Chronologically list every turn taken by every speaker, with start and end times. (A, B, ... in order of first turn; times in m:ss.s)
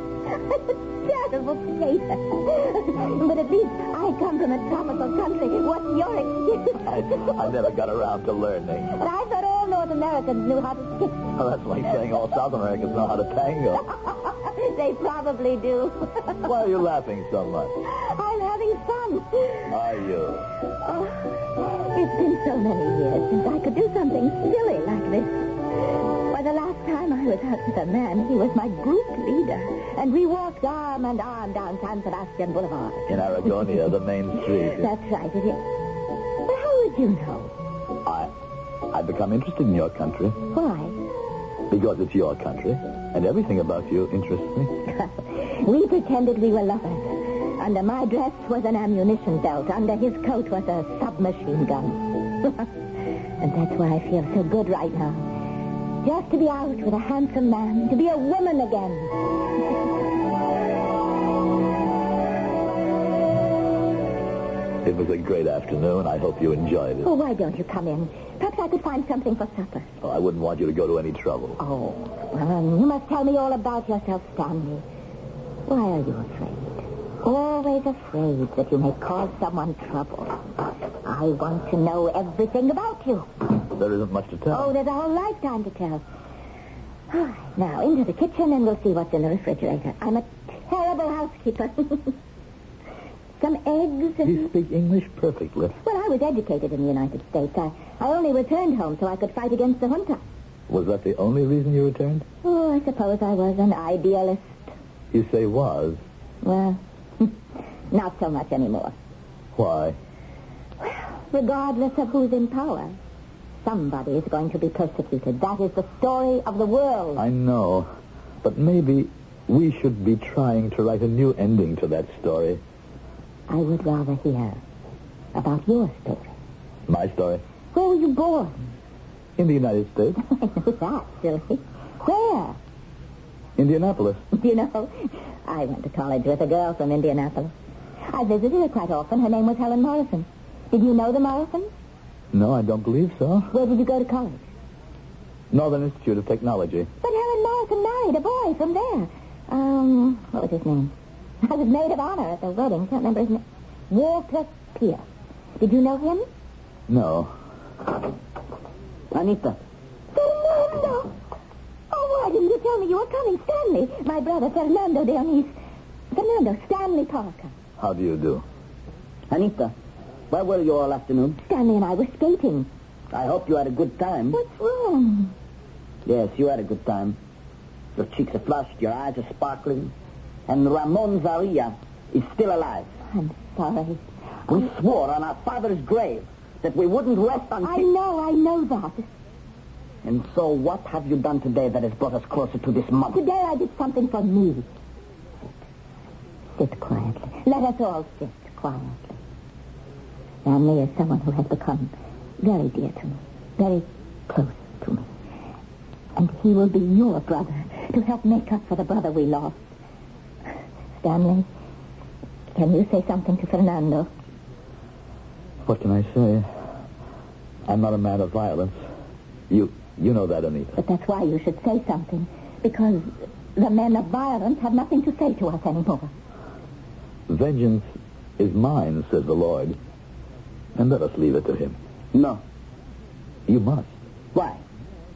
0:00.3-0:07.3 A
0:06.9-0:08.9 B
0:08.9-0:11.4 A
0:11.4-0:13.9 B
0:14.3-0:16.2 A
0:16.4-0:17.8 B
0:17.8-0:19.7 A
0:19.7-0:20.5 B
0:20.8-0:33.7 A
0:33.1-0:34.9 B
0:34.4-0:35.7 A
0:36.4-0:37.5 A
0:38.0-0:38.3 B
0:38.9-0:40.4 B
0:40.5-0:41.0 A
0:41.7-0:44.7 B
0:45.3-0:52.7 A
0:53.4-0:55.4 A
0:56.0-0:59.4 A
1:04.8-1:07.1 B
1:07.0-1:09.9 A
1:10.0-1:11.6 B
1:11.6-1:14.8 A
1:15.7-1:23.3 A
1:23.7-1:24.7 B
1:24.5-1:26.0 A
1:27.1-1:32.2 A
1:33.4-1:34.5 A
1:34.2-1:35.8 B
1:35.8-1:40.2 A
1:40.7-1:42.3 B
1:42.4-1:44.6 A
1:45.1-1:46.0 B
1:46.4-1:47.4 A
1:47.9-1:49.0 A
1:49.6-1:50.0 B
1:50.8-1:53.0 A
1:53.6-1:57.2 A
1:57.2-1:57.9 B
1:58.4-2:02.6 B
2:03.5-2:04.6 A
2:05.3-2:06.3 A
2:06.9-2:07.4 B
2:07.7-2:08.7 A
2:09.4-2:10.2 B
2:10.4-2:12.6 A
2:13.6-2:14.2 B
2:14.4-2:17.5 A
2:18.1-2:21.7 A
2:22.3-2:23.5 B
2:23.5-2:24.4 A
2:25.5-2:26.9 B
2:27.0-2:35.0 A
2:35.6-2:36.3 A
2:36.9-2:37.3 B
2:39.1-2:39.6 C
2:40.2-2:41.1 A
2:41.9-2:45.6 A
2:46.1-2:47.5 A
2:47.8-2:48.4 B
2:49.3-2:49.7 C
2:50.3-2:51.4 C
2:51.4-2:52.7 A
2:53.1-2:54.4 C
2:54.3-2:55.3 A
2:56.1-2:57.2 C
2:58.0-2:59.9 C
3:00.5-3:02.9 C
3:03.1-3:04.0 A
3:04.5-3:07.9 C
3:07.6-3:09.1 A
3:10.0-3:13.2 C
3:13.1-3:14.7 A
3:16.6-3:19.2 A
3:20.4-3:25.1 A
3:26.2-3:29.6 A
3:31.0-3:31.5 A
3:32.5-3:34.1 A
3:35.7-3:36.5 B
3:37.7-3:38.8 B
3:39.5-3:40.8 B
3:40.8-3:46.1 A
3:47.3-3:47.9 B
3:48.4-3:49.8 B
3:50.8-3:51.8 B
3:52.1-3:52.4 C
3:53.5-3:53.9 B
3:54.3-3:54.6 C